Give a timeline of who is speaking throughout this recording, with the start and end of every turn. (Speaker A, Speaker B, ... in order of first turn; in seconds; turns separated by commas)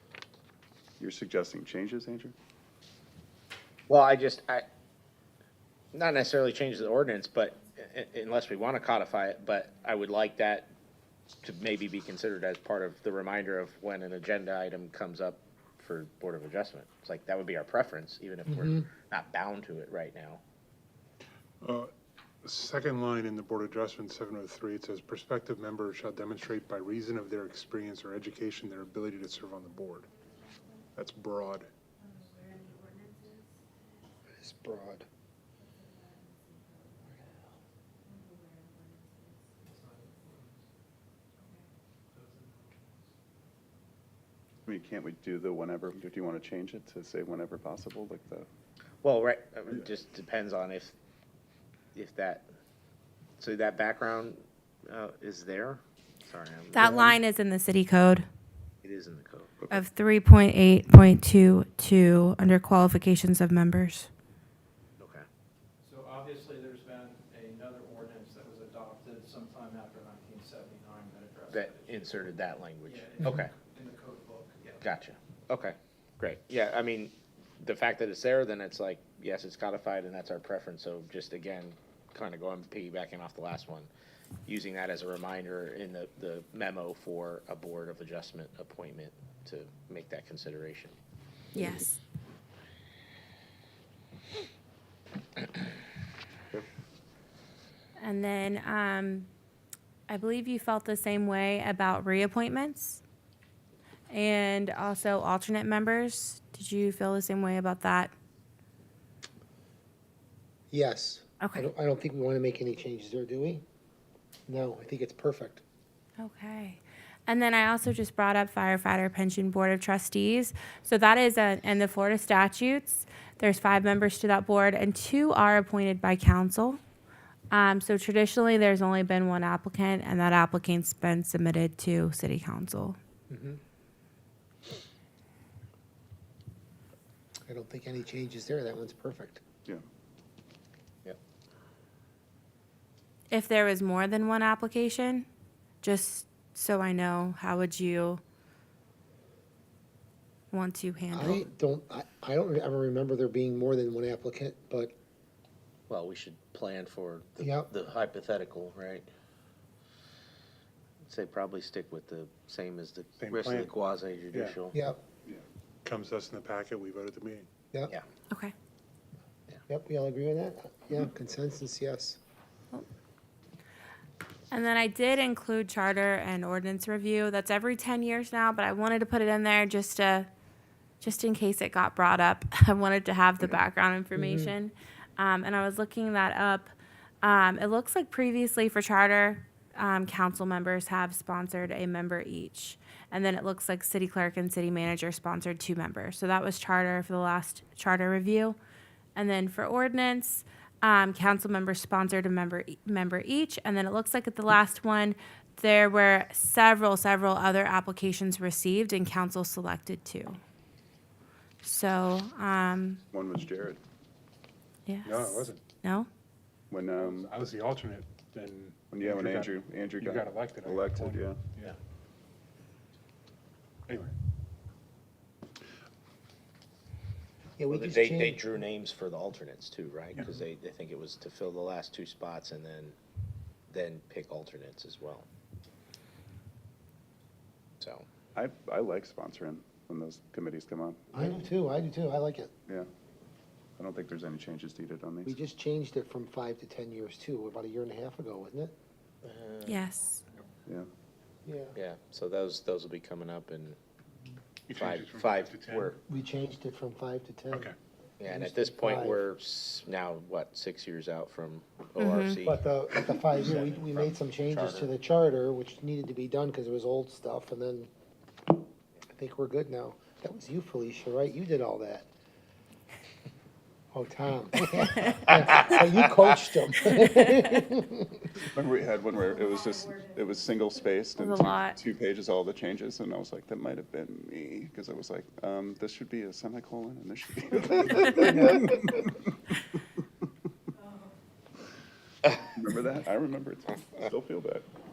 Speaker A: 1.0-2.3, Speaker B: 3.9-4.6, Speaker B: 5.9-10.7, Speaker B: 11.4-20.4, Speaker C: 18.5-18.9, Speaker D: 22.4-30.1, Speaker D: 31.0-31.4, Speaker C: 34.4-35.1, Speaker E: 39.6-40.6, Speaker E: 42.1-42.7, Speaker A: 44.7-48.5, Speaker B: 49.0-51.0, Speaker B: 52.0-52.5, Speaker B: 53.4-57.1, Speaker F: 56.7-58.3, Speaker B: 58.8-59.5, Speaker F: 59.7-64.1, Speaker B: 65.0-65.3, Speaker E: 65.8-74.9, Speaker B: 71.5-73.5, Speaker B: 74.8-83.9, Speaker B: 84.5-91.0, Speaker F: 91.5-92.0, Speaker F: 98.0-99.3, Speaker F: 100.1-103.0, Speaker F: 104.1-108.1, Speaker C: 110.7-113.6, Speaker F: 111.4-111.7, Speaker C: 114.5-115.6, Speaker F: 116.2-126.8, Speaker F: 127.5-133.0, Speaker C: 133.3-133.6, Speaker C: 137.5-139.4, Speaker F: 143.3-145.3, Speaker F: 145.8-148.2, Speaker F: 150.5-151.5, Speaker C: 151.1-154.9, Speaker B: 155.9-159.1, Speaker C: 157.4-157.7, Speaker B: 161.1-164.8, Speaker C: 164.7-165.0, Speaker D: 165.8-167.5, Speaker C: 169.7-172.2, Speaker F: 174.5-180.3, Speaker F: 181.0-186.7, Speaker C: 184.2-184.5, Speaker F: 187.2-198.6, Speaker F: 199.2-210.4, Speaker F: 211.6-213.0, Speaker A: 213.1-213.8, Speaker F: 214.9-216.1, Speaker D: 215.1-215.6, Speaker A: 216.7-217.3, Speaker D: 216.9-221.6, Speaker A: 218.9-221.4, Speaker C: 227.6-228.5, Speaker B: 227.7-232.9, Speaker B: 233.7-235.3, Speaker A: 238.3-241.0, Speaker C: 241.1-242.5, Speaker A: 243.8-245.3, Speaker C: 245.3-248.7, Speaker B: 249.2-249.8, Speaker F: 249.7-250.2, Speaker C: 251.4-251.8, Speaker B: 251.8-253.8, Speaker D: 254.7-255.8, Speaker B: 254.7-256.0, Speaker C: 256.1-259.2, Speaker B: 258.2-264.9, Speaker F: 262.0-262.4, Speaker C: 262.4-267.9, Speaker C: 269.1-272.1, Speaker C: 273.9-278.2, Speaker A: 278.5-288.6, Speaker F: 281.2-281.8, Speaker A: 292.6-294.7